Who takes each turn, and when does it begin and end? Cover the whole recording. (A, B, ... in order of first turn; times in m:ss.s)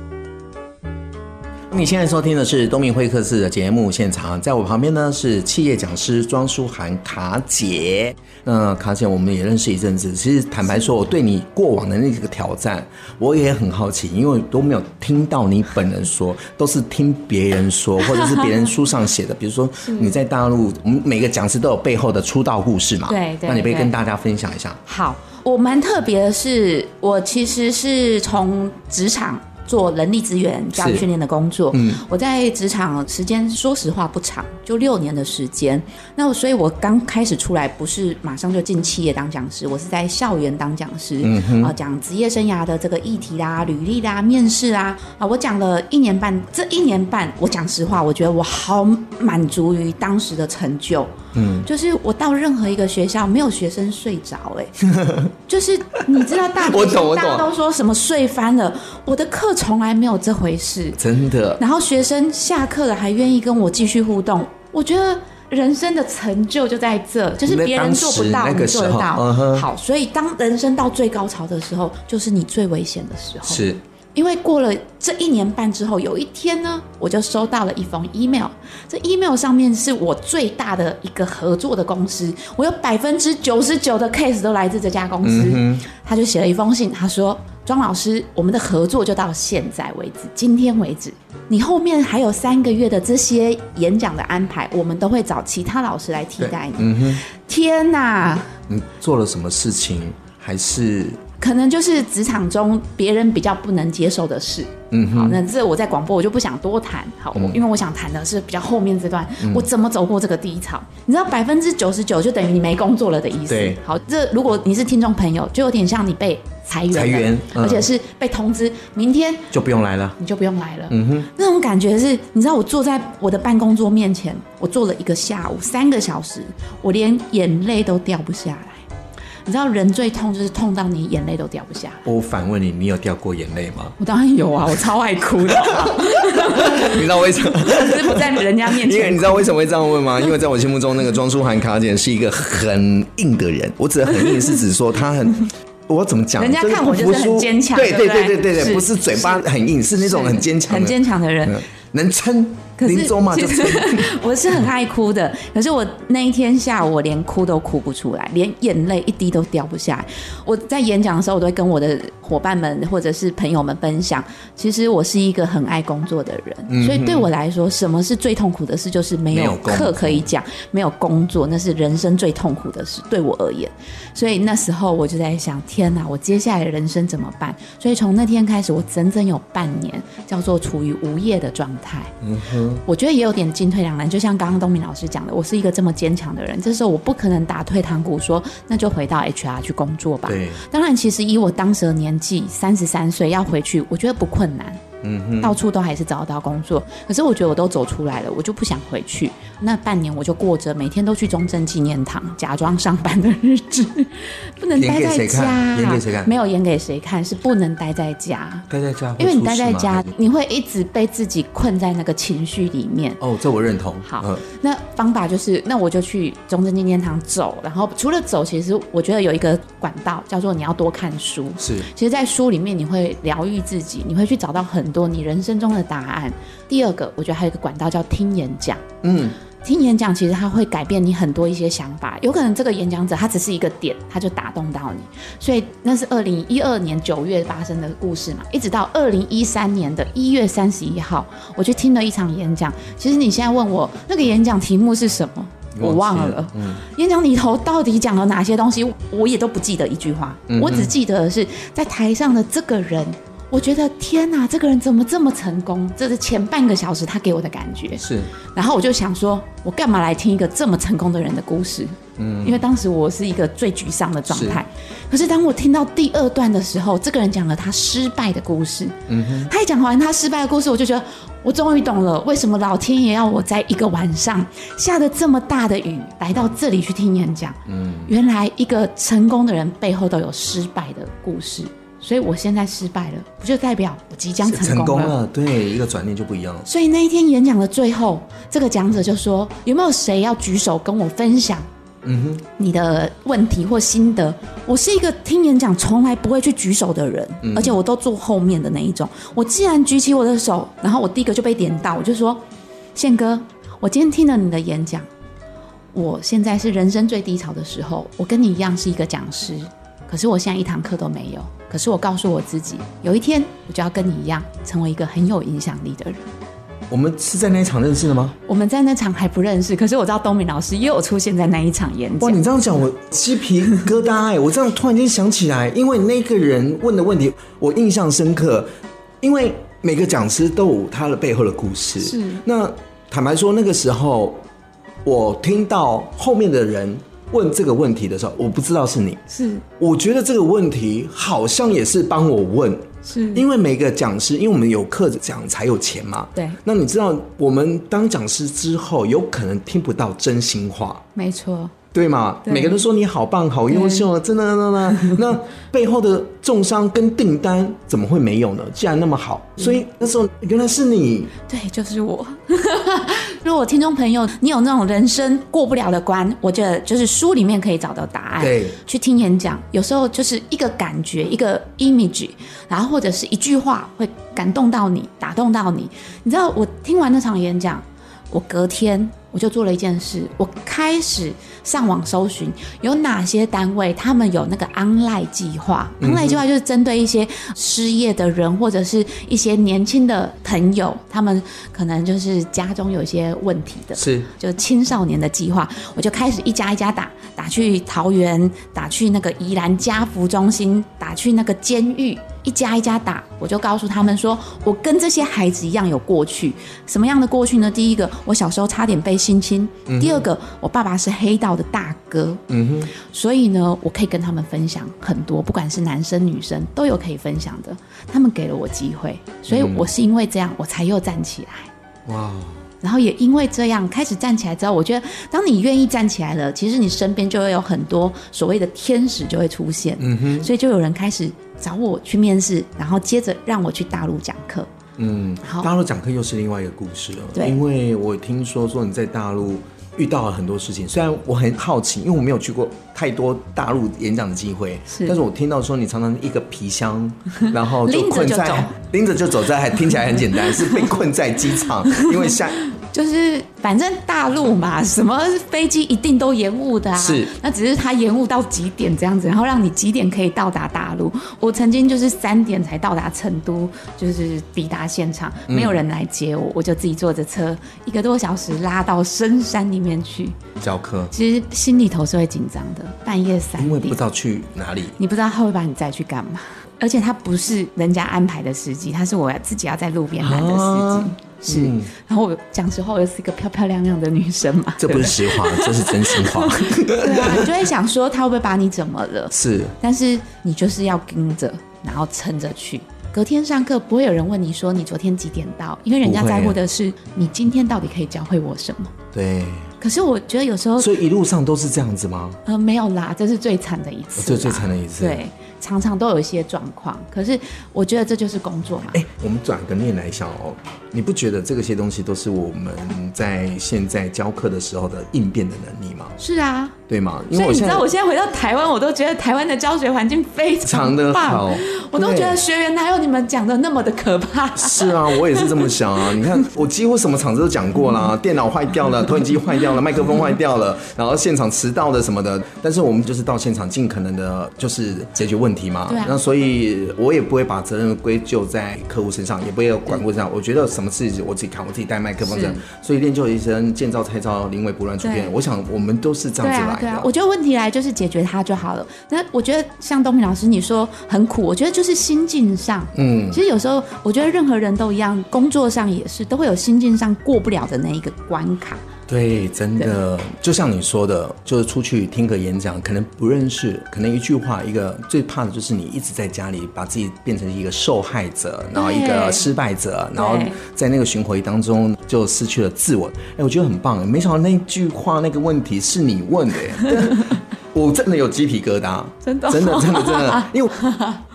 0:01.7-0:24.8 A
0:18.2-0:18.4 B
0:19.8-0:20.2 B
0:23.1-0:23.9 B
0:24.9-0:51.1 B
0:30.8-0:31.1 A
0:31.7-0:32.0 A
0:41.2-0:41.7 A
0:51.3-0:51.7 A
0:51.6-0:54.8 B
0:54.8-0:55.3 A
0:55.5-1:01.0 B
0:56.1-0:57.5 A
1:01.0-1:01.6 A
1:01.6-1:38.6 B
1:07.5-1:09.7 A
1:13.5-1:13.8 A
1:25.2-1:25.8 A
1:36.4-1:37.2 A
1:38.7-1:41.2 A
1:41.4-1:59.5 B
1:44.9-1:45.4 A
1:47.3-1:47.6 A
1:49.4-1:49.7 A
1:53.5-1:53.8 A
1:56.9-1:57.9 A
1:59.5-2:00.2 A
2:00.2-2:08.8 B
2:00.9-2:01.3 A
2:09.5-2:12.0 B
2:12.0-2:14.0 A
2:14.0-2:19.6 B
2:15.5-2:34.2 A
2:26.4-2:29.4 B
2:30.0-2:31.6 B
2:32.8-3:02.1 B
2:46.7-2:47.3 A
2:49.3-2:50.2 A
3:02.2-3:02.8 A
3:02.8-3:14.8 B
3:10.3-3:10.6 A
3:15.0-3:15.6 A
3:15.4-3:33.2 B
3:24.8-3:26.3 A
3:28.7-3:30.1 A
3:33.2-3:34.4 A
3:34.0-3:48.8 B
3:41.6-3:41.9 A
3:49.0-3:49.4 A
3:49.6-4:45.2 B
4:05.8-4:06.8 A
4:10.5-4:10.9 A
4:18.0-4:18.3 A
4:22.2-4:22.6 A
4:24.3-4:24.6 A
4:29.1-4:29.5 A
4:37.7-4:38.1 A
4:44.4-4:46.7 A
4:46.7-4:51.7 B
4:52.0-4:52.4 A
4:52.6-5:02.4 B
4:57.4-4:57.8 A
5:03.0-5:05.1 B
5:05.9-5:16.2 B
5:16.9-5:18.4 A
5:18.5-5:22.4 B
5:22.2-5:28.7 A
5:29.2-5:34.4 A
5:32.0-5:32.4 B
5:35.0-5:39.2 A
5:39.3-5:39.6 B
5:39.8-5:51.0 A
5:43.1-5:43.4 B
5:51.2-5:51.7 B
5:51.9-6:01.3 A
5:52.5-5:52.8 B
5:53.7-5:54.1 B
6:01.5-6:52.4 B
6:08.4-6:08.8 A
6:26.0-6:26.4 A
6:34.0-6:34.3 A
6:49.9-6:50.3 A
6:52.5-6:52.9 A
6:53.0-7:01.7 B
6:59.5-6:59.9 A
7:02.1-7:02.6 A
7:02.8-7:14.7 B
7:10.0-7:10.5 A
7:15.0-7:32.6 A
7:15.4-7:15.7 B
7:17.4-7:17.6 B
7:24.9-7:25.2 B
7:27.8-7:28.7 B
7:32.8-7:50.4 B
7:37.0-7:37.3 A
7:45.5-7:45.8 A
7:50.6-7:51.1 A
7:51.1-7:54.0 B
7:53.6-7:55.0 A
7:55.0-8:19.0 B
8:00.2-8:01.9 A
8:04.8-8:07.5 A
8:09.3-8:09.7 A
8:16.0-8:16.6 A
8:19.1-8:19.7 A
8:19.8-8:20.9 B
8:20.8-8:22.4 A
8:22.5-8:29.0 B
8:24.2-8:25.2 A
8:28.9-8:36.2 A
8:36.2-8:36.8 B
8:36.9-8:37.9 A
8:37.3-8:45.6 B
8:40.6-8:42.4 A
8:44.6-9:07.1 A
8:55.9-8:56.2 B
9:02.2-9:02.6 B
9:05.0-9:05.3 B
9:06.4-9:18.8 B
9:13.0-9:13.4 A
9:19.1-9:40.8 A
9:28.8-9:29.5 B
9:30.2-9:30.6 B
9:39.2-9:41.2 B